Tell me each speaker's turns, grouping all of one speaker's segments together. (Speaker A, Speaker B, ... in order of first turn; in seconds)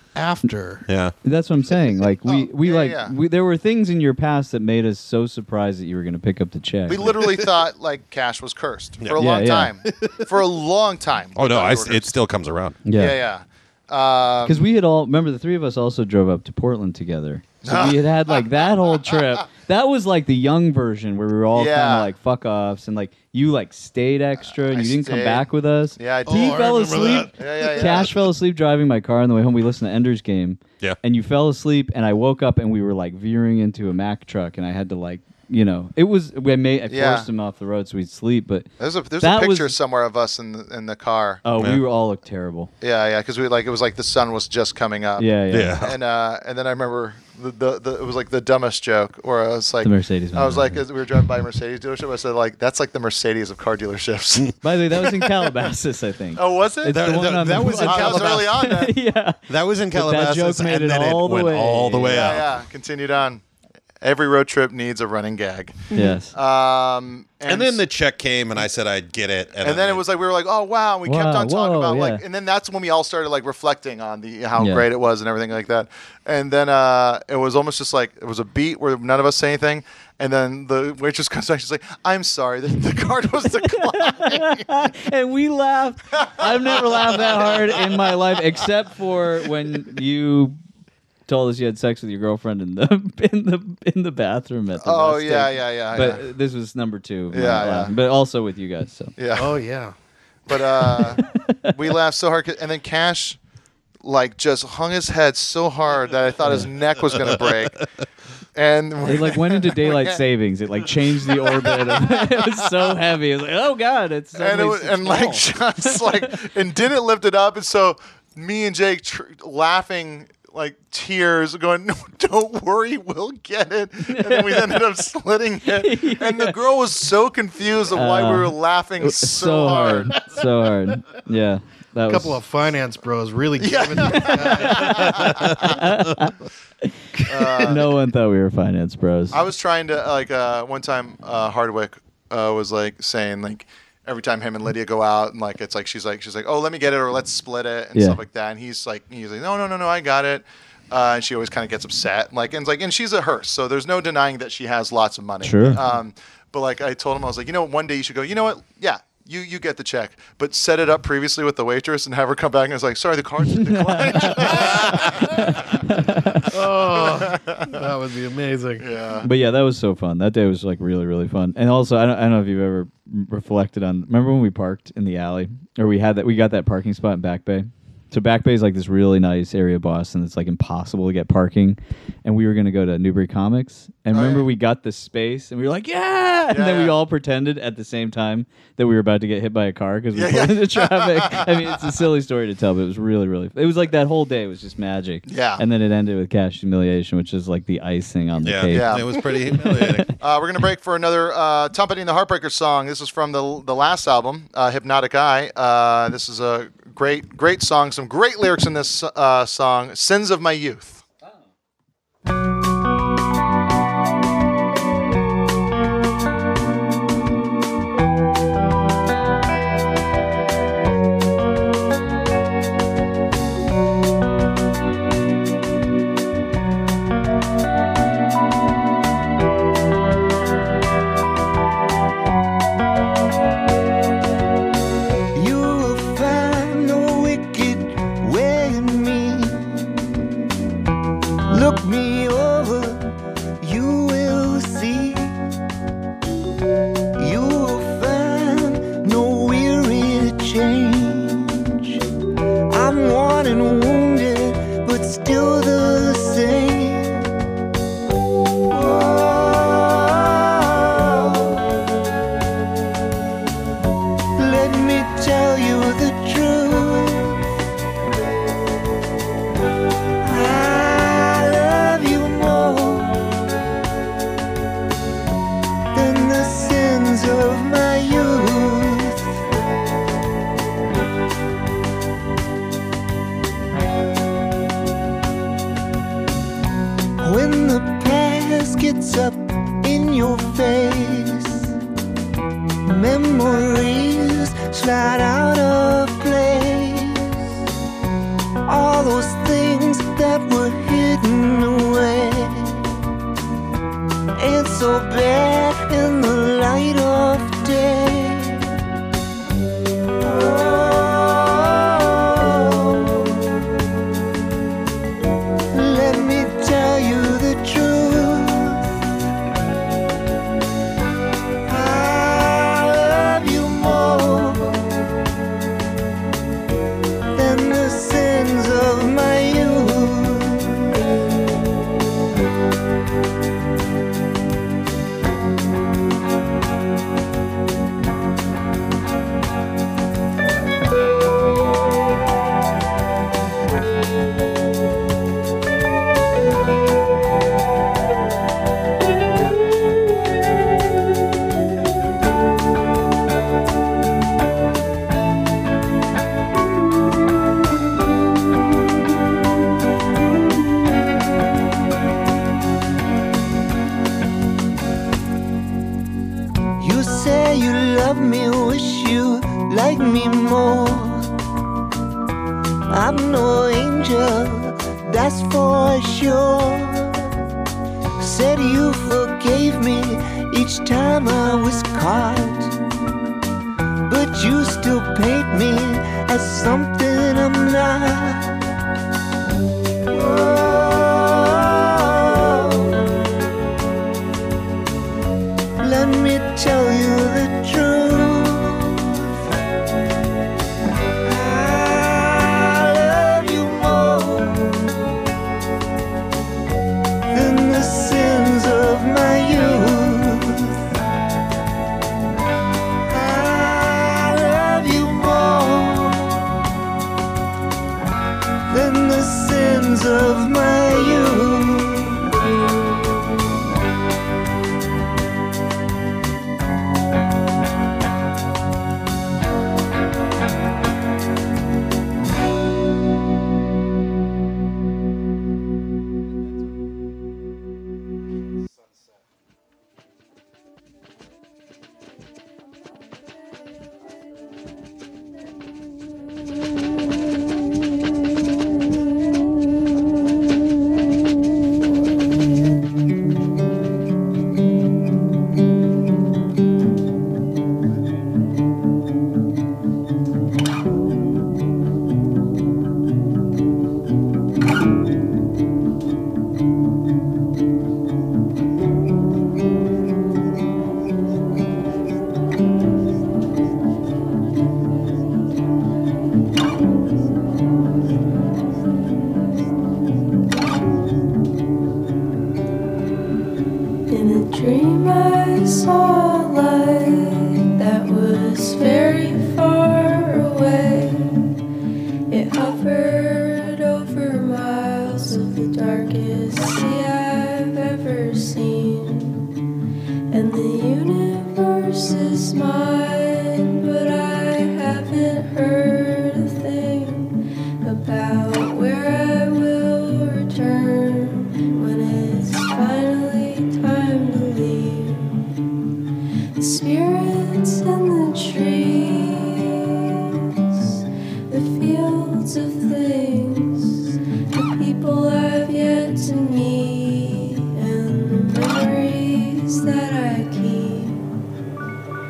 Speaker A: 0.1-0.9, 26.3-27.4, 99.4-99.9, 132.1-135.5, 166.5-168.8
Speaker B: 0.9-1.1, 9.8-10.3, 11.4-12.8, 45.5-46.0, 56.9-58.7, 59.5-62.5, 67.5-70.0, 198.4-200.1
Speaker C: 1.2-7.2, 9.2-9.7, 12.9-13.2, 14.4-38.7, 39.2-39.8, 41.5-42.7, 45.2-45.8, 49.8-50.8, 54.6-59.4, 59.9-62.3, 65.9-66.3, 71.0-72.2, 74.6-74.8, 83.5-90.6, 91.3-99.1, 101.2-101.7, 109.0-116.3, 124.1-124.8, 125.7-126.5, 127.9-132.4, 134.5-136.9, 137.6-139.4, 155.4-155.8, 163.6-166.5, 169.2-199.3
Speaker D: 2.3-3.1, 6.9-12.1, 12.9-14.7, 17.6-18.9, 21.5-22.1, 24.5-26.7, 27.4-28.2, 36.9-37.3, 38.8-41.4, 42.8-54.5, 56.4-57.0, 57.5-58.9, 62.1-63.4, 64.0-67.8, 69.6-84.9, 86.1-88.1, 94.8-96.2, 97.3-97.9, 99.2-99.6, 100.5-103.4, 104.0-107.8, 108.5-110.2, 111.3-112.3, 114.4-130.4, 133.6-135.8, 137.2-137.9, 139.3-165.8, 167.2-167.7, 168.8-169.3, 184.1-184.5, 186.5-186.9, 190.2-191.8, 195.3-195.6, 198.7-199.3, 200.2-211.0
Speaker E: 235.3-239.8, 241.5-243.1, 243.6-245.4, 247.2-252.0, 252.7-257.3, 258.7-261.6, 264.4-267.4, 270.2-273.3, 275.9-279.3, 287.2-291.7, 292.9-297.5, 298.6-302.9, 304.4-308.8, 310.2-313.4, 315.7-318.9, 321.6-324.9, 327.4-331.0, 366.8-371.3, 372.9-377.3, 378.2-382.7, 384.1-388.6, 390.1-393.0, 395.8-399.3, 401.2-404.9, 407.3-410.8, 413.1-416.5, 418.7-422.3
Speaker F: 484.1-491.5, 492.3-499.5, 500.3-515.4, 516.6-531.2